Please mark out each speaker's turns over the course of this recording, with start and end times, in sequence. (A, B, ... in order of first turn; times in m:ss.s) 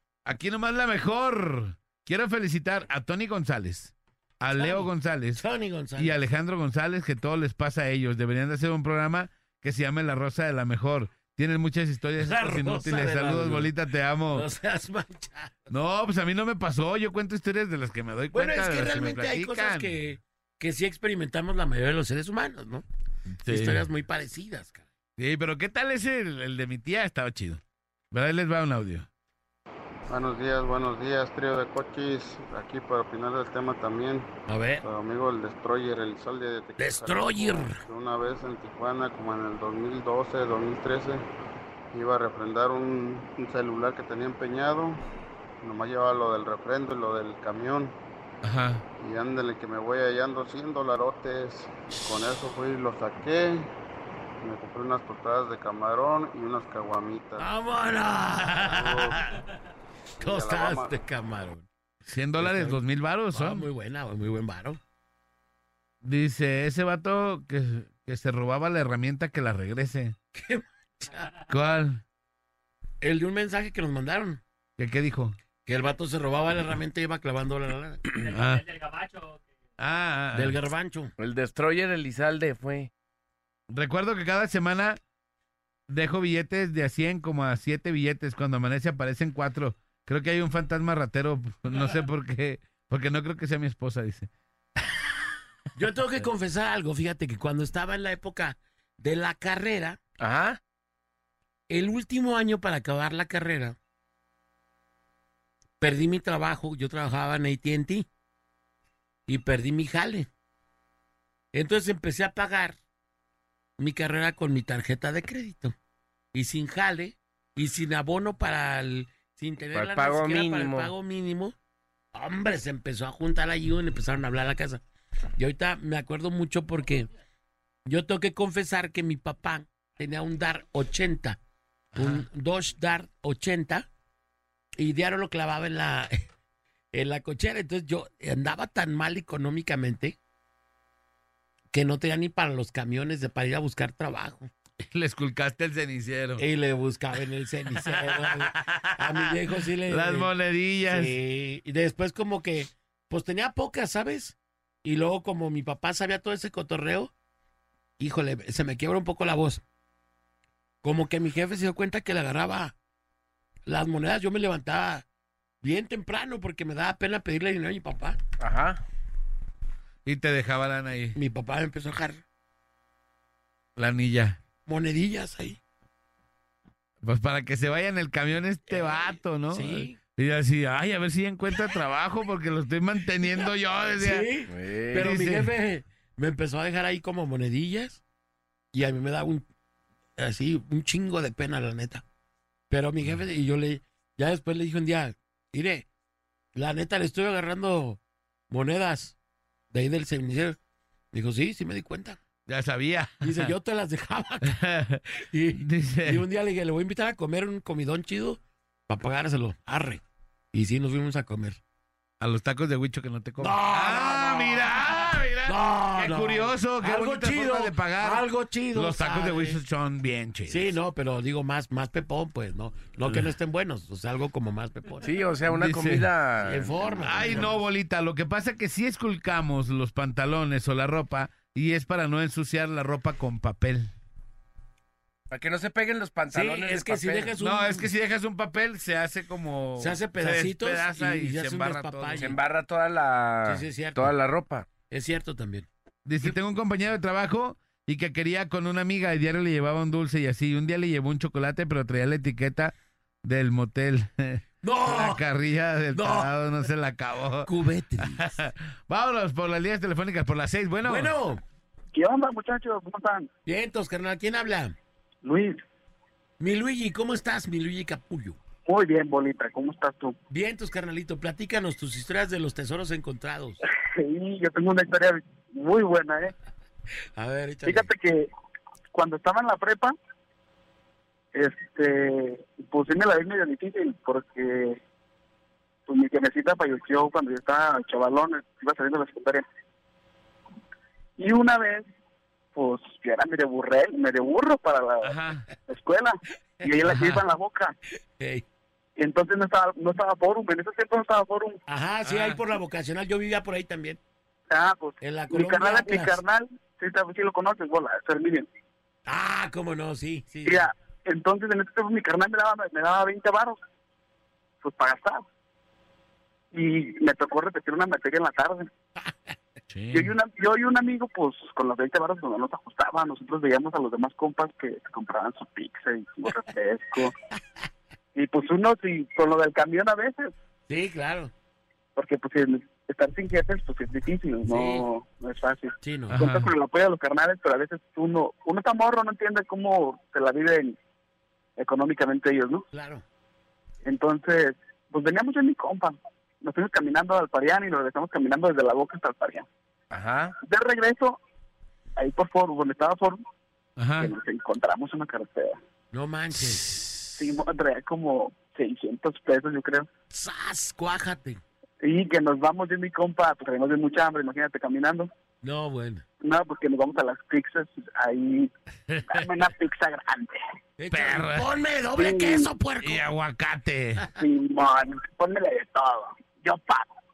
0:00.3-0:05.4 A
0:04.5-0:06.2 B
0:06.0-0:14.5 A
0:12.2-0:13.7 B
0:14.3-0:15.7 B
0:15.7-0:20.0 A
0:18.3-0:22.8 B
0:23.3-0:23.8 A
0:23.5-0:24.9 B
0:25.2-0:27.6 A
0:28.1-0:29.1 A
0:30.1-0:34.3 C
0:34.5-0:34.8 B
0:34.8-0:41.2 C
0:36.8-0:37.8 B
0:41.9-0:45.0 C
0:45.6-0:48.0 C
0:48.4-0:48.8 A
0:49.0-0:53.7 C
0:54.4-0:57.5 C
0:57.4-0:59.4 B
0:58.6-0:59.2 C
1:00.2-1:01.0 C
1:00.2-1:01.7 B
1:02.1-1:03.7 A
1:02.4-1:04.8 B
1:06.0-1:10.2 A
1:10.3-1:11.3 B
1:11.5-1:12.0 A
1:13.0-1:14.4 B
1:14.8-1:15.4 A
1:15.7-1:18.3 B
1:18.3-1:18.8 A
1:19.8-1:20.6 A
1:20.3-1:21.1 B
1:21.2-1:22.9 D
1:23.7-1:25.0 A
1:25.9-1:34.3 A
1:35.8-1:40.0 B
1:40.2-1:40.6 D
1:41.7-1:43.8 B
1:45.8-1:48.1 B
1:49.3-1:50.3 B
1:51.5-1:52.8 B
1:53.8-1:55.8 B
1:56.3-2:01.6 B
1:59.7-2:00.9 D
2:02.1-2:04.8 B
2:05.4-2:07.1 B
2:07.9-2:11.4 B
2:12.0-2:12.2 A
2:12.0-2:13.9 B
2:14.8-2:16.3 B
2:16.9-2:20.2 B
2:21.7-2:24.5 B
2:24.9-2:26.4 A
2:26.4-2:30.3 B
2:27.8-2:29.3 A
2:29.9-2:31.2 A
2:30.9-2:37.1 B
2:38.0-2:39.6 B
2:40.8-2:42.8 B
2:43.7-2:45.0 B
2:45.6-2:48.2 B
2:48.4-2:48.8 D
2:50.0-2:51.2 A
2:51.2-2:52.2 B
2:53.8-2:54.4 A
2:54.7-2:55.6 B
2:57.0-3:04.3 A
2:58.7-3:00.0 B
3:04.0-3:08.0 B
3:04.5-3:05.1 D
3:04.9-3:05.5 A
3:08.7-3:09.4 B
3:10.2-3:12.0 B
3:12.7-3:15.9 B
3:16.6-3:19.2 B
3:19.7-3:20.6 B
3:21.1-3:22.2 B
3:22.5-3:23.5 A
3:23.2-3:24.6 B
3:24.5-3:25.0 A
3:25.3-3:30.0 B
3:25.5-3:26.2 A
3:30.5-3:31.6 B
3:32.2-3:40.7 A
3:33.4-3:34.8 B
3:35.4-3:39.6 B
3:40.5-3:45.1 B
3:45.0-3:47.4 D
3:45.5-3:46.1 A
3:46.4-3:47.5 B
3:47.0-3:53.9 A
3:55.3-3:57.4 D
3:56.3-3:57.9 B
3:57.4-4:02.4 A
3:59.8-4:02.4 B
4:02.2-4:04.7 D
4:03.4-4:04.1 B
4:04.9-4:05.7 B
4:06.0-4:21.2 A
4:14.6-4:15.2 B
4:15.9-4:16.3 B
4:17.4-4:18.3 B
4:20.8-4:21.4 B
4:21.9-4:23.3 E
4:23.5-4:24.8 B
4:25.2-4:25.6 E
4:26.4-4:28.4 B
4:28.7-4:30.2 E
4:30.3-4:33.6 B
4:34.0-4:36.3 E
4:37.2-4:37.9 B
4:37.7-4:38.3 E
4:38.9-4:40.0 E
4:41.3-4:44.8 E
4:45.9-4:49.4 E
4:51.2-4:51.9 E
4:52.6-4:55.2 E
4:55.0-4:55.5 A
4:55.7-4:57.7 E
4:56.9-4:57.2 A
4:58.2-4:58.4 B
4:59.0-5:01.6 E
5:01.7-5:04.0 B
5:02.0-5:02.4 A
5:04.5-5:08.5 E
5:05.0-5:06.2 B
5:09.1-5:10.7 B
5:10.4-5:13.6 E
5:14.6-5:15.2 E
5:16.5-5:18.7 E
5:19.7-5:20.1 A
5:19.9-5:27.1 E
5:28.2-5:30.3 E
5:30.7-5:31.3 B
5:32.0-5:40.8 E
5:34.5-5:34.9 B
5:35.8-5:36.2 B
5:36.1-5:36.5 A
5:41.6-5:42.6 E
5:42.7-5:43.0 B
5:43.9-5:49.5 E
5:49.9-5:50.3 D
5:50.4-5:51.2 E
5:52.0-5:53.2 E
5:53.8-5:54.1 A
5:54.0-5:55.6 E
5:55.9-5:56.8 B
5:57.2-5:59.9 E
6:00.1-6:01.4 B
6:01.8-6:05.1 E
6:05.4-6:06.0 B
6:06.2-6:08.5 E
6:08.9-6:09.2 A
6:09.1-6:10.4 E
6:10.8-6:13.1 B
6:10.9-6:11.5 A
6:12.0-6:12.5 E
6:12.8-6:14.1 A
6:14.2-6:16.9 E